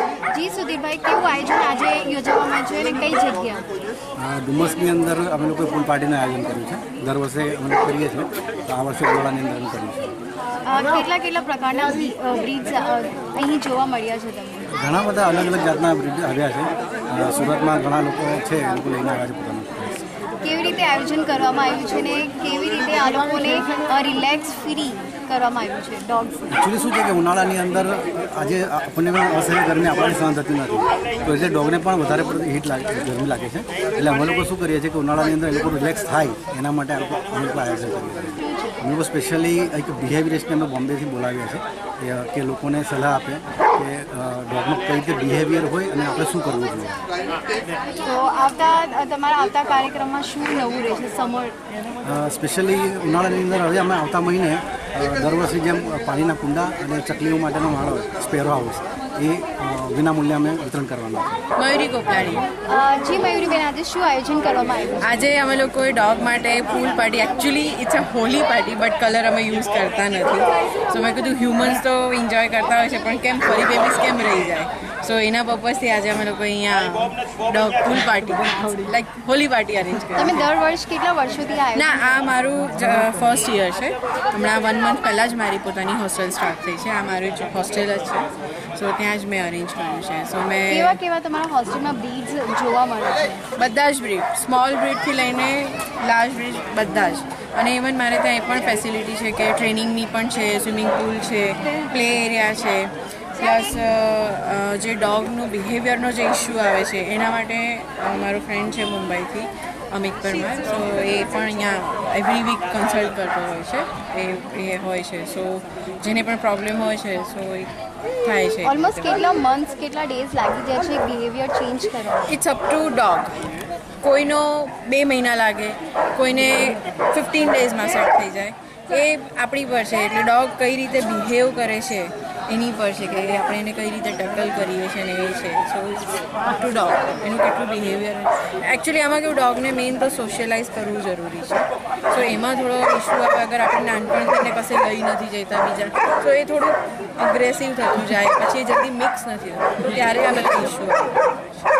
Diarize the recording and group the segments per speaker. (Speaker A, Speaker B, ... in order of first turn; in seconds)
Speaker A: 0.3-3.6, 10.7-14.7, 20.4-26.5, 38.4-38.8, 47.9-51.5, 62.7-65.1, 80.2-82.1, 90.7-93.5, 118.6-122.3
Speaker B: 4.2-10.3, 14.8-20.0, 26.5-47.0, 52.1-61.4
Speaker C: 61.6-62.5, 65.0-80.4, 81.8-91.0, 93.5-117.7, 118.2-118.8, 122.3-123.3, 124.0-151.2